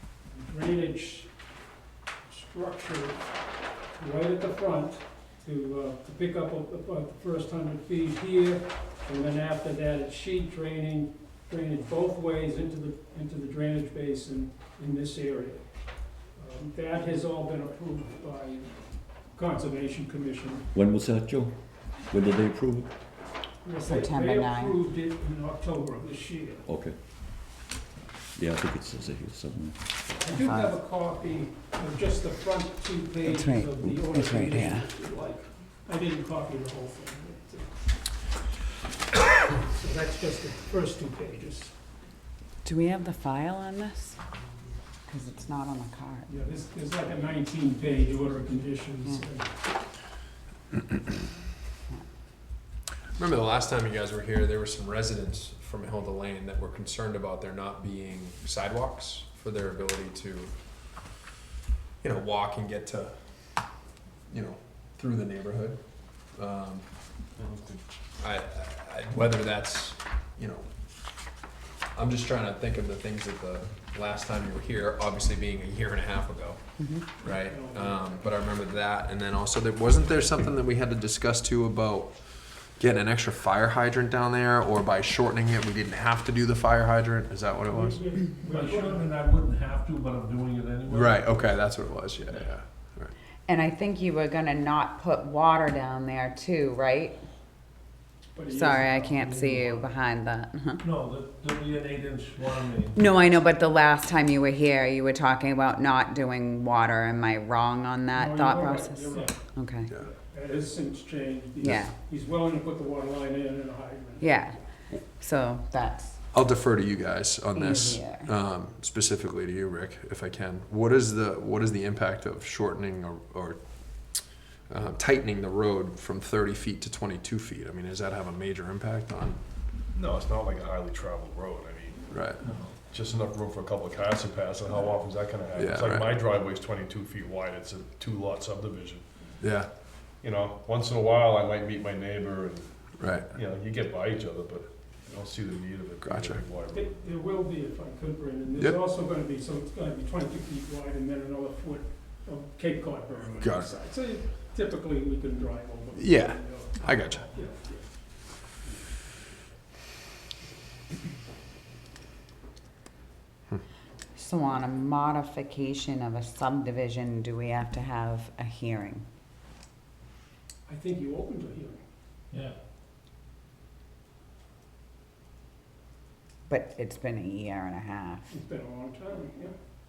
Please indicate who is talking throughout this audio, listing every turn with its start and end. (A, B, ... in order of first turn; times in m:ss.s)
0:00.3-0:01.3 A
0:02.2-0:03.3 A
0:04.0-0:20.7 A
0:20.7-0:22.9 B
0:23.6-0:26.6 A
0:23.8-0:24.8 C
0:26.6-0:27.0 B
0:28.3-0:29.8 B
0:30.2-0:38.4 A
0:30.3-0:30.7 C
0:33.2-0:34.9 C
0:39.3-0:41.8 A
0:42.6-0:44.2 C
0:45.0-0:46.3 C
0:46.3-0:49.7 A
0:53.2-1:01.1 D
1:02.0-1:03.8 D
1:04.3-1:06.8 D
1:07.4-1:07.8 E
1:08.2-1:10.7 D
1:11.9-1:28.0 D
1:16.8-1:17.1 C
1:17.2-1:18.7 A
1:27.6-1:29.2 A
1:28.5-1:31.3 F
1:30.9-1:33.1 D
1:33.5-1:37.2 C
1:38.3-1:39.9 A
1:38.5-1:40.8 C
1:40.8-1:43.0 F
1:42.9-1:49.9 C
1:48.1-1:54.4 A
1:51.6-1:51.9 C
1:54.2-1:56.2 C
1:56.3-2:09.4 D
1:57.5-1:58.3 C
2:09.9-2:19.4 E
2:12.1-2:12.4 D
2:12.4-2:12.7 F
2:15.5-2:16.2 D
2:19.4-2:19.7 D
2:20.1-2:26.9 E
2:23.0-2:23.3 D
2:26.0-2:26.4 D
2:26.6-2:38.9 A
2:33.4-2:33.7 D
2:35.9-2:37.3 D
2:44.1-2:49.0 C
2:50.6-2:51.9 A
2:52.3-2:52.6 F
2:56.5-2:58.3 C
2:58.3-2:59.5 A